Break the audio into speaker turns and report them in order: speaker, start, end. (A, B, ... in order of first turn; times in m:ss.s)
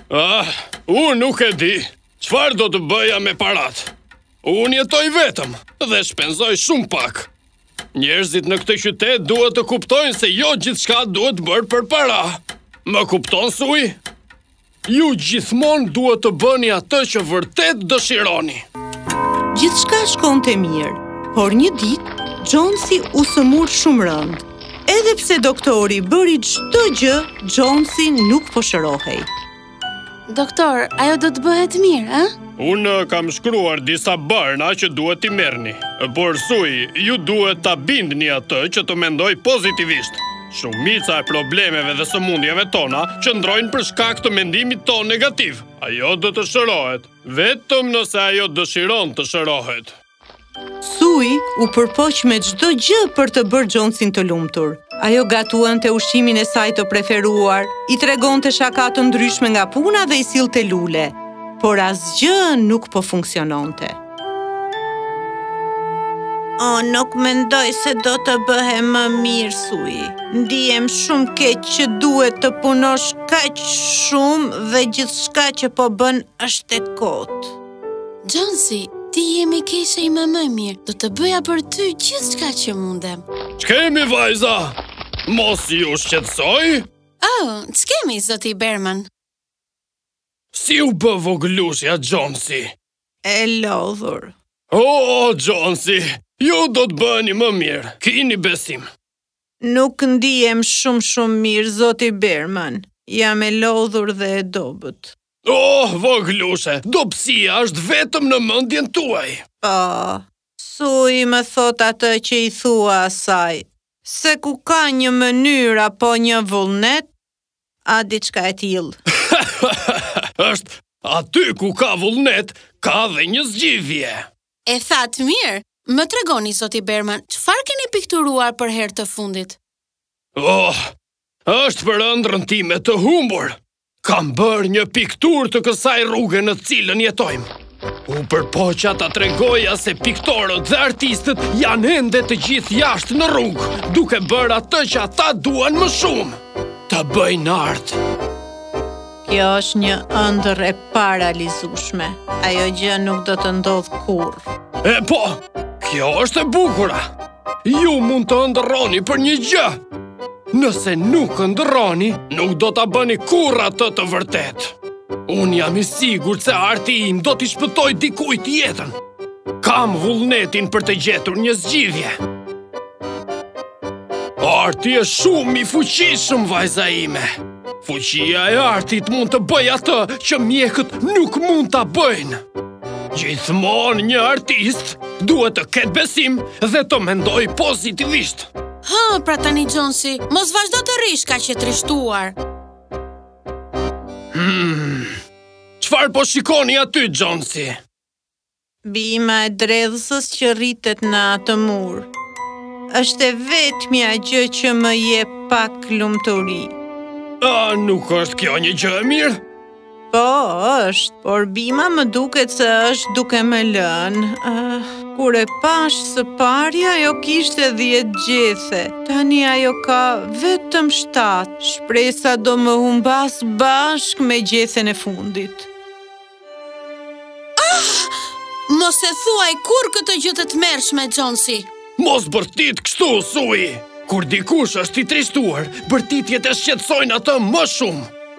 0:00.1-0:03.9 A
0:04.4-0:07.3 A
0:07.9-0:14.0 A
0:14.9-0:18.6 A
0:19.5-0:29.3 B
0:30.3-0:32.3 C
0:32.6-0:49.9 A
0:50.8-1:04.0 B
1:06.6-1:17.6 B
1:18.2-1:23.2 C
1:23.6-1:24.8 A
1:25.3-1:26.8 A
1:27.2-1:29.1 C
1:30.5-1:32.7 A
1:33.2-1:34.3 B
1:34.7-1:38.9 A
1:39.6-1:45.1 B
1:45.4-1:49.4 A
1:49.6-1:57.1 B
1:57.8-1:59.0 B
1:59.3-2:04.3 A
2:04.6-2:09.6 C
2:10.4-2:10.8 A
2:11.5-2:17.5 A
2:18.1-2:26.4 A
2:26.9-2:28.0 A
2:29.2-2:34.4 B
2:34.8-2:37.0 A
2:37.6-2:39.8 A
2:40.5-2:44.7 A
2:45.3-2:49.0 A
2:49.6-2:52.2 A
2:54.4-2:57.3 A
2:57.8-3:02.4 A
3:03.1-3:08.5 A
3:08.8-3:12.4 C
3:14.3-3:15.1 A
3:15.8-3:17.8 A
3:18.8-3:22.1 B
3:22.9-3:26.7 B
3:27.4-3:29.4 A
3:30.1-3:45.7 B
3:47.6-3:51.7 C
3:52.0-3:58.1 A